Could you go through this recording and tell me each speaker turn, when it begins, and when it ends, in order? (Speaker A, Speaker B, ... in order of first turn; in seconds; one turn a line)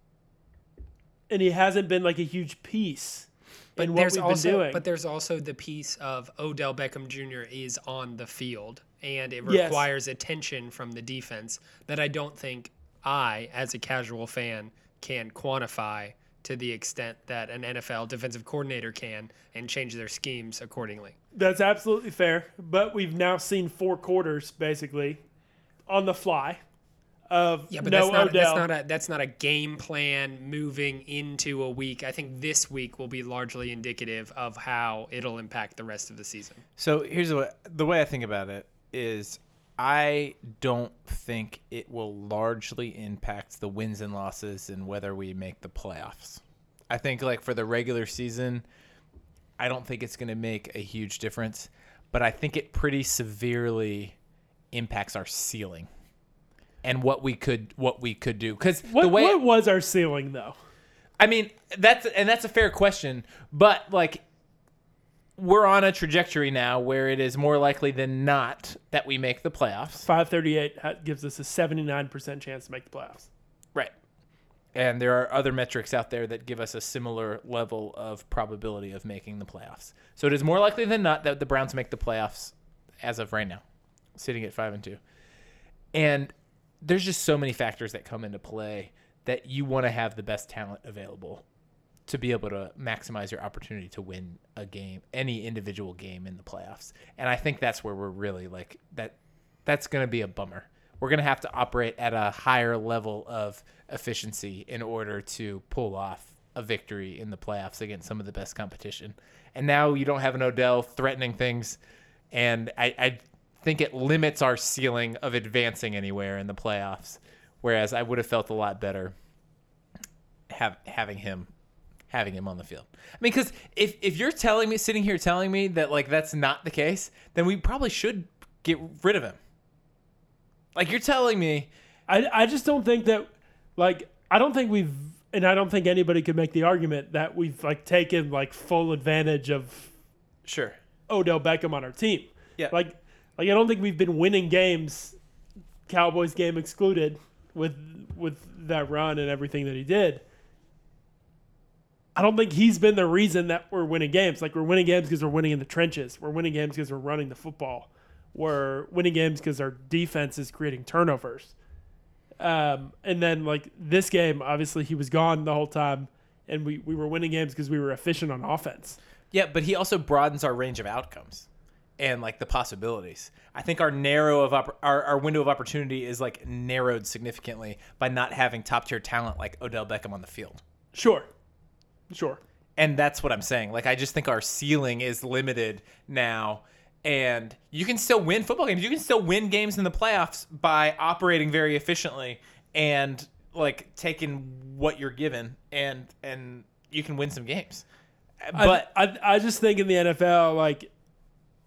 Speaker A: 1.3-4.8
Speaker B: 3.8-21.2
Speaker A: 9.5-9.9
Speaker A: 21.3-25.2
Speaker A: 25.9-26.6
Speaker A: 27.3-28.7
Speaker B: 27.7-36.6
Speaker C: 36.8-48.7
Speaker C: 49.6-54.2
Speaker C: 54.7-55.9
Speaker C: 56.8-59.4
Speaker A: 58.9-60.6
Speaker C: 61.2-64.2
Speaker C: 65.4-70.1
Speaker A: 70.0-73.3
Speaker C: 74.7-83.6
Speaker C: 84.1-85.0
Speaker C: 85.9-91.5
Speaker C: 92.1-111.8
Speaker C: 112.3-119.1
Speaker C: 120.5-121.5
Speaker C: 122.1-129.4
Speaker C: 130.8-131.7
Speaker A: 132.1-139.9
Speaker C: 140.4-140.8
Speaker A: 141.1-145.2
Speaker A: 145.9-150.2
Speaker A: 152.1-161.6
Speaker A: 162.4-169.0
Speaker C: 169.3-171.5
Speaker C: 172.0-180.6
Speaker A: 180.9-181.3
Speaker A: 182.1-182.4
Speaker C: 182.8-197.8
Speaker C: 198.4-198.9
Speaker A: 198.5-200.9